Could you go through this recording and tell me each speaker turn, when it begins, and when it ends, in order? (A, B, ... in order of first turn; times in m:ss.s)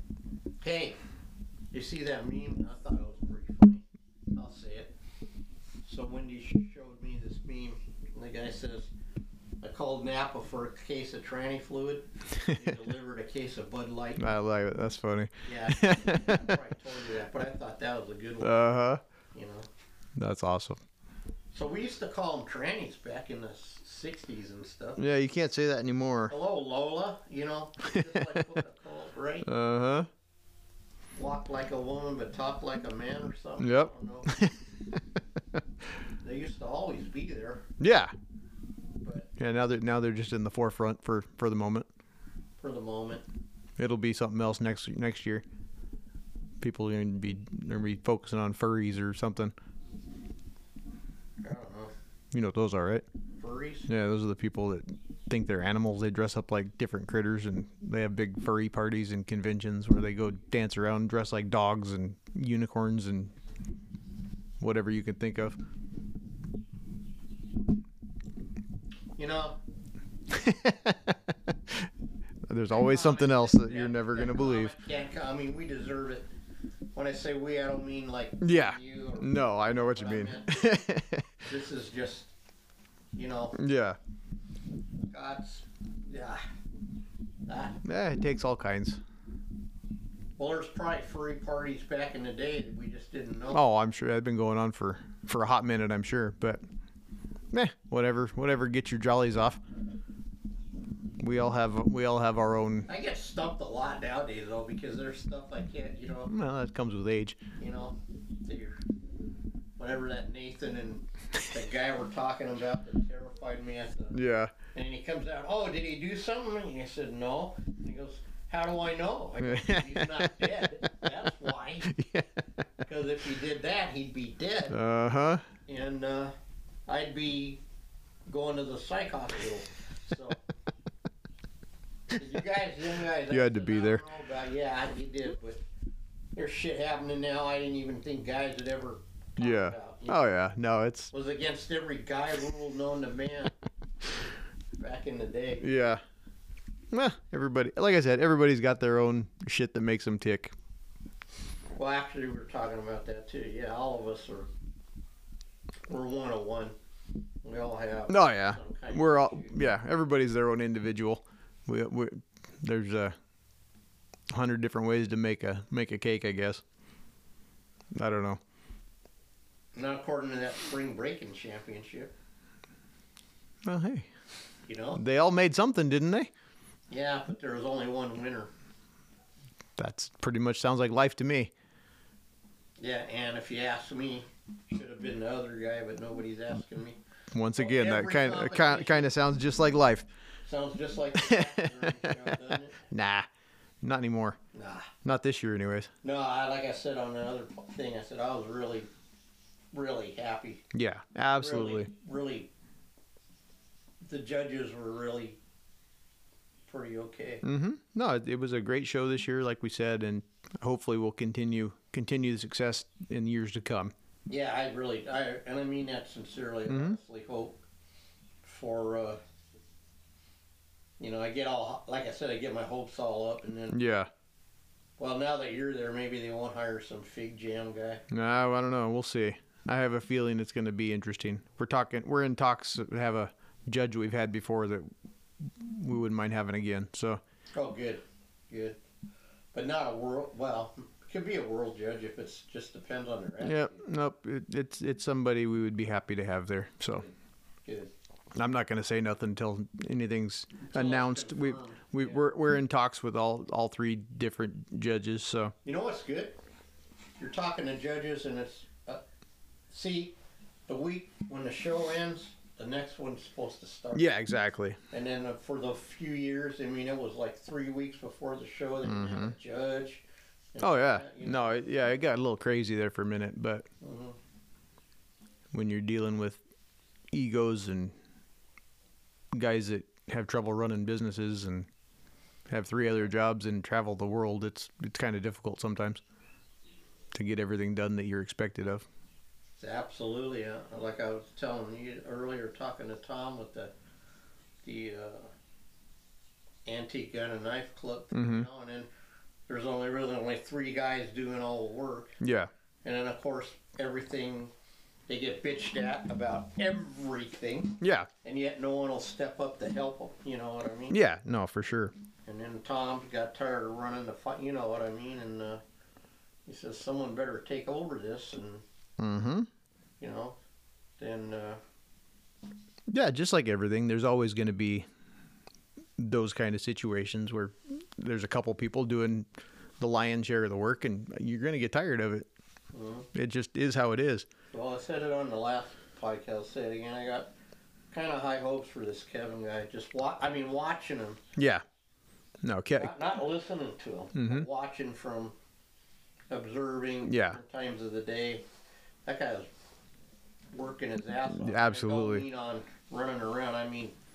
0:00.6-0:01.0 A
0:01.7-0:03.8 A
0:04.3-0:04.9 A
0:05.8-0:08.9 A
0:09.6-0:14.2 A
0:12.4-0:12.7 B
0:14.2-0:16.6 B
0:15.4-0:18.7 A
0:18.4-0:19.0 B
0:19.3-0:19.7 A
0:20.2-0:20.8 B
0:21.5-0:25.0 A
0:25.0-0:26.3 B
0:26.3-0:29.5 A
0:27.9-0:28.5 B
0:29.4-0:30.1 B
0:31.2-0:34.3 A
0:33.6-0:34.6 B
0:36.2-0:37.6 A
0:37.8-0:38.1 B
0:39.4-0:41.9 B
0:42.6-0:43.2 A
0:43.8-0:45.4 B
0:46.6-0:49.5 B
0:51.4-0:51.9 A
0:52.3-0:53.0 B
0:53.4-0:53.9 A
0:53.9-1:03.3 B
1:04.6-1:05.6 B
1:09.2-1:09.6 A
1:10.3-1:11.9 B
1:12.5-1:14.7 B
1:12.7-1:16.3 A
1:16.9-1:20.8 A
1:18.4-1:21.4 B
1:21.4-1:22.3 A
1:23.2-1:23.6 A
1:23.5-1:24.0 B
1:25.1-1:26.4 A
1:27.5-1:27.8 A
1:27.8-1:29.0 B
1:30.4-1:33.6 A
1:33.5-1:36.6 B
1:37.5-1:39.6 B
1:41.2-1:42.9 B
1:42.9-1:46.3 A
1:46.3-1:47.4 B
1:47.6-1:48.8 A
1:49.8-1:54.2 A
1:54.1-1:54.5 B
1:54.7-2:01.9 A
1:59.4-2:00.5 B
2:01.9-2:02.8 B
2:02.8-2:04.8 A
2:04.7-2:05.4 B
2:05.6-2:06.3 A
2:06.9-2:07.6 A
2:08.3-2:10.4 A
2:12.1-2:15.6 A
2:13.3-2:14.0 B
2:16.4-2:20.2 A
2:19.4-2:21.1 B
2:21.1-2:23.5 A
2:24.8-2:25.7 A
2:25.6-2:26.0 B
2:26.9-2:30.5 B
2:31.8-2:34.5 A
2:35.9-2:36.7 A
2:37.4-2:39.6 A
2:38.1-2:43.1 B
2:44.3-2:46.6 B
2:47.9-2:48.4 B
2:49.7-2:52.1 A
2:53.6-2:54.1 B
2:54.7-2:55.0 A
2:55.0-2:56.3 B
2:56.9-2:58.5 A
2:59.8-3:01.5 B
3:02.8-3:07.0 A
3:07.3-3:10.1 B
3:07.6-3:09.1 A
3:10.5-3:12.8 A
3:11.2-3:13.3 B
3:13.8-3:14.4 B
3:14.5-3:14.9 A
3:15.0-3:15.9 B
3:16.0-3:18.9 A
3:19.7-3:20.6 A
3:20.7-3:21.9 B
3:21.3-3:22.5 A
3:24.0-3:25.4 A
3:26.7-3:27.4 A
3:27.4-3:33.9 B
3:34.3-3:37.5 A
3:36.7-3:37.0 B
3:38.4-3:39.2 A
3:41.0-3:43.8 A
3:43.7-3:44.1 B
3:45.0-3:48.0 A
3:48.1-3:54.9 B
3:55.4-3:57.2 B
3:57.6-3:58.8 A
3:59.5-4:03.8 A
4:03.4-4:07.1 B
4:07.6-4:07.9 A
4:08.3-4:15.5 B
4:10.6-4:12.2 A
4:15.6-4:16.4 A
4:17.2-4:19.0 A
4:19.7-4:20.1 A
4:20.7-4:24.1 A
4:23.9-4:24.8 B
4:24.9-4:30.0 A
4:28.8-4:29.3 B
4:30.5-4:31.6 A
4:30.6-4:33.7 B
4:33.8-4:34.2 A
4:35.5-4:36.4 B
4:37.1-4:37.9 B
4:39.3-4:41.7 B
4:42.5-4:46.0 B
4:47.1-4:48.8 B
4:49.6-4:53.7 A
4:54.6-4:55.3 A
4:56.6-4:58.9 A
4:58.1-4:58.5 B
4:59.5-5:02.2 A
5:02.2-5:02.5 B
5:02.8-5:04.5 A
5:05.1-5:11.0 A
5:07.8-5:08.1 B
5:10.9-5:11.9 B
5:12.3-5:15.6 A
5:16.4-5:18.6 A
5:19.0-5:19.5 B
5:20.0-5:20.4 A
5:21.0-5:21.6 A
5:22.9-5:24.8 B
5:26.0-5:29.3 B
5:29.8-5:32.3 B
5:32.7-5:33.1 A
5:33.1-5:34.3 B
5:34.5-5:37.3 A
5:37.9-5:41.2 A
5:41.4-5:41.6 B
5:42.4-5:42.9 B
5:42.7-5:45.3 A
5:44.1-5:44.5 B
5:46.3-5:48.4 A
5:47.0-5:47.4 B
5:49.0-5:49.5 A
5:50.5-5:53.9 A
5:51.3-5:52.2 B